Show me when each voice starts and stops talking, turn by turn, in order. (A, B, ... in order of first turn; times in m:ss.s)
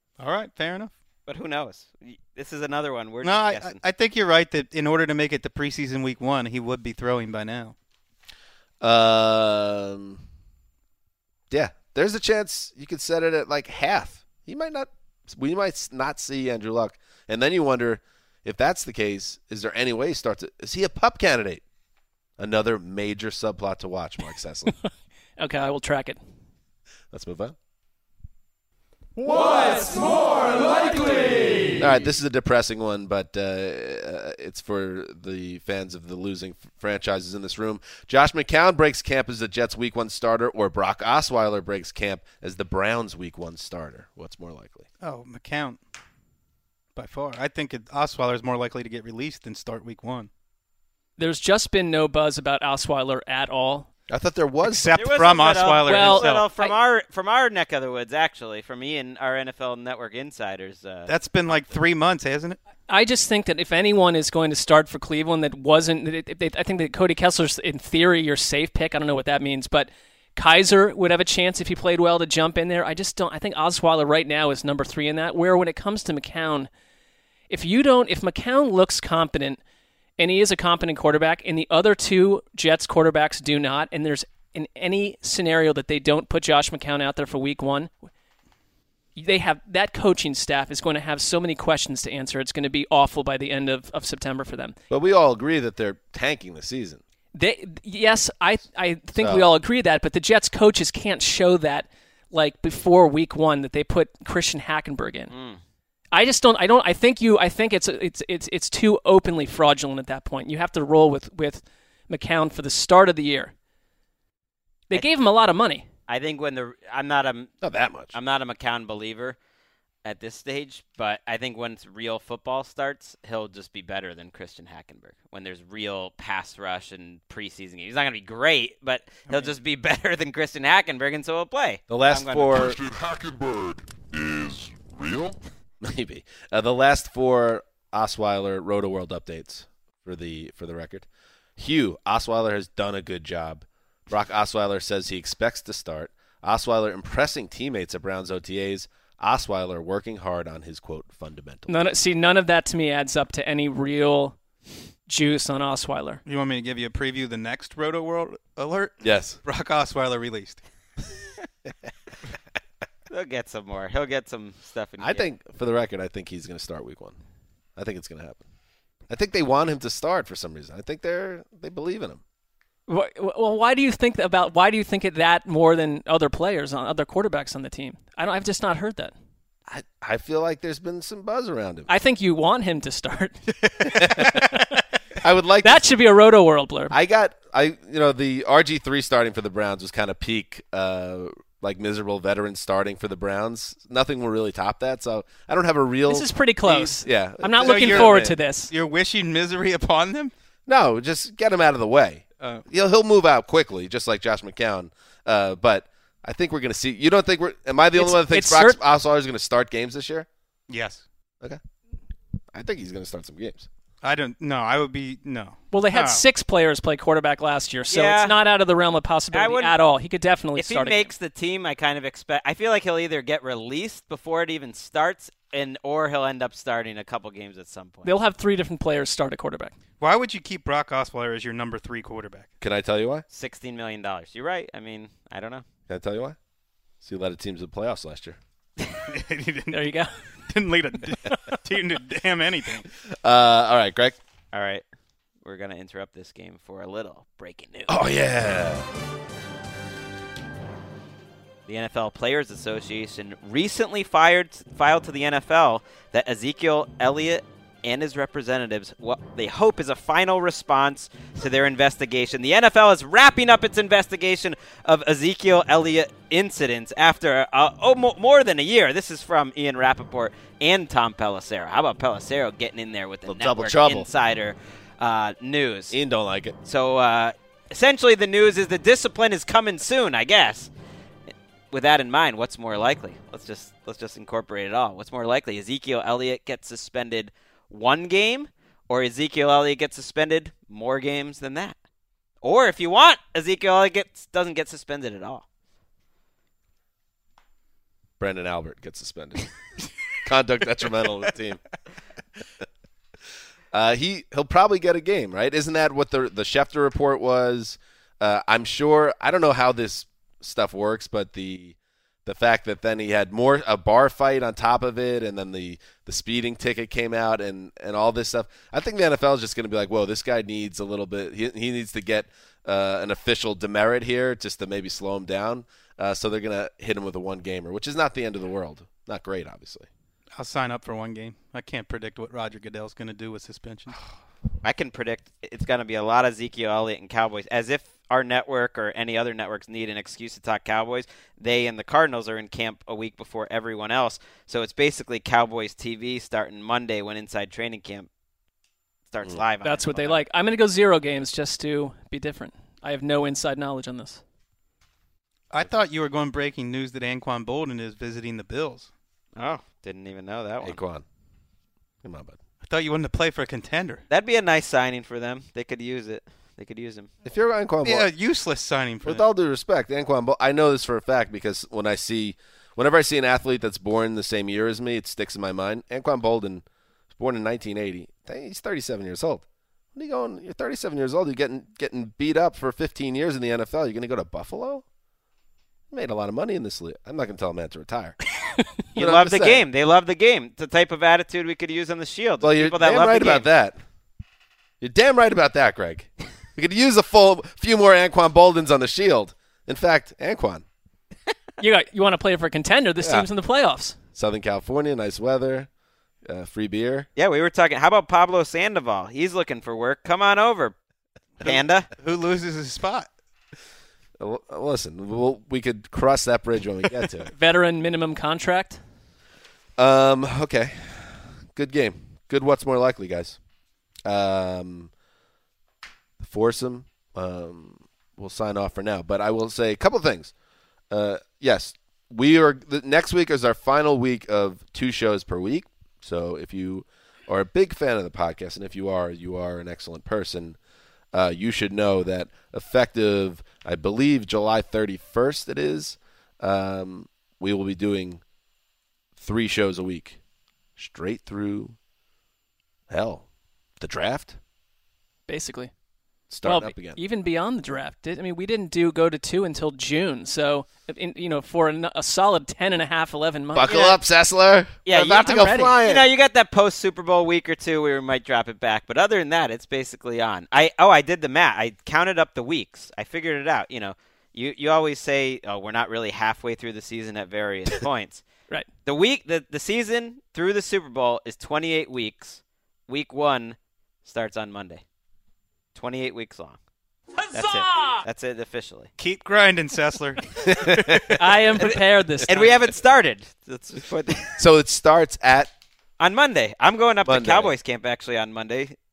0:00.2-0:00.9 A
0:01.3-0:03.8 B
0:03.2-0:07.8 A
0:08.8-0:10.2 C
0:11.5-0:21.6 C
0:22.4-0:24.8 C
0:25.4-0:26.2 D
0:27.1-0:27.6 C
0:29.2-0:31.8 E
0:31.8-0:44.9 C
0:45.0-0:45.8 A
0:47.0-0:50.3 A
0:51.2-0:53.9 D
0:54.1-0:55.1 C
0:54.6-0:56.5 A
0:55.0-1:01.6 B
0:55.9-0:56.8 D
1:01.1-1:02.6 A
1:02.9-1:16.7 D
1:17.5-1:19.6 D
1:20.2-1:28.1 D
1:29.2-1:34.8 D
1:34.9-1:37.0 C
1:37.4-1:45.3 D
1:39.2-1:39.5 C
1:45.3-1:45.6 B
1:46.1-1:53.5 D
1:54.9-1:55.9 D
1:56.1-1:57.6 B
1:57.6-1:58.1 C
1:58.1-1:59.4 B
2:00.0-2:12.8 B
2:09.3-2:09.5 A
2:11.9-2:12.8 C
2:12.6-2:15.4 F
2:15.8-2:21.1 C
2:21.6-2:31.7 C
2:31.7-2:34.4 D
2:35.1-2:36.2 D
2:36.2-2:40.6 A
2:39.0-2:39.4 C
2:43.1-2:45.3 B
2:45.0-2:47.2 C
2:47.8-2:48.4 C
2:49.1-2:52.2 C
2:52.9-2:59.1 D
2:59.7-3:01.9 C
3:01.9-3:03.4 D
3:03.8-3:04.6 C
3:04.0-3:04.5 D
3:05.2-3:05.9 C
3:05.6-3:07.0 D
3:06.9-3:18.4 C
3:16.1-3:18.7 D
3:17.6-3:20.3 A
3:20.7-3:30.3 C
3:28.0-3:28.8 D
3:30.7-3:31.0 A
3:32.5-3:33.7 C
3:34.0-3:36.2 A
3:35.7-3:41.1 D
3:37.9-3:38.4 B
3:39.3-3:39.8 B
3:40.6-3:48.1 B
3:48.0-3:49.7 D
3:50.0-3:52.5 A
3:52.6-3:53.2 C
3:53.3-3:55.6 B
3:55.9-3:56.4 C
3:57.0-3:58.4 C
3:59.1-3:59.9 A
3:59.7-4:00.1 D
4:00.5-4:02.9 A
4:03.1-4:04.2 C
4:04.5-4:04.8 B
4:05.4-4:08.0 B
4:07.9-4:08.9 C
4:11.7-4:36.0 B
4:33.2-4:34.1 C
4:35.9-4:36.6 C
4:36.6-4:40.7 B
4:41.7-4:51.8 B
4:52.4-4:55.4 B
4:58.2-4:59.5 C
5:00.1-5:01.6 C
5:03.7-5:29.9 C
5:30.4-5:34.0 A
5:34.6-5:48.1 B
5:49.1-5:50.2 B
5:49.6-5:54.2 D
5:55.5-5:58.9 A
5:59.4-6:00.8 B
6:00.6-6:01.0 C
6:02.0-6:02.4 C
6:02.6-6:04.0 A
6:04.1-6:07.1 B
6:07.2-6:08.1 C
6:07.8-6:09.2 A
6:09.0-6:24.8 C
6:25.9-6:28.2 C
6:29.0-6:29.7 C
6:29.0-6:33.5 B
6:32.4-6:33.8 C
6:34.8-6:40.6 C
6:41.6-6:44.0 D
6:43.0-6:43.3 C
6:44.2-6:45.7 C
6:46.3-6:47.1 C
6:47.2-6:50.8 B
6:51.4-6:51.9 B
6:51.4-6:53.1 A
6:54.2-6:57.3 C
6:57.3-6:58.8 D
6:59.8-7:03.4 C
7:04.0-7:04.9 C
7:06.2-7:10.3 C
7:10.9-7:20.6 C
7:21.1-7:28.2 C
7:29.2-7:30.2 C
7:30.8-7:31.8 C
7:32.9-7:33.2 C
7:33.8-7:34.4 C
7:35.3-7:35.7 D
7:36.3-7:37.0 C
7:36.4-7:44.0 D
7:43.5-7:46.1 C
7:44.9-7:58.2 B
7:45.2-7:45.8 D
7:58.8-8:04.8 B
8:05.8-8:06.6 B
8:07.3-8:08.9 B
8:09.0-8:11.1 A
8:10.4-8:11.1 C
8:11.2-8:12.5 D
8:12.3-8:14.4 B
8:14.4-8:15.5 C
8:16.0-8:18.8 B
8:17.0-8:17.5 C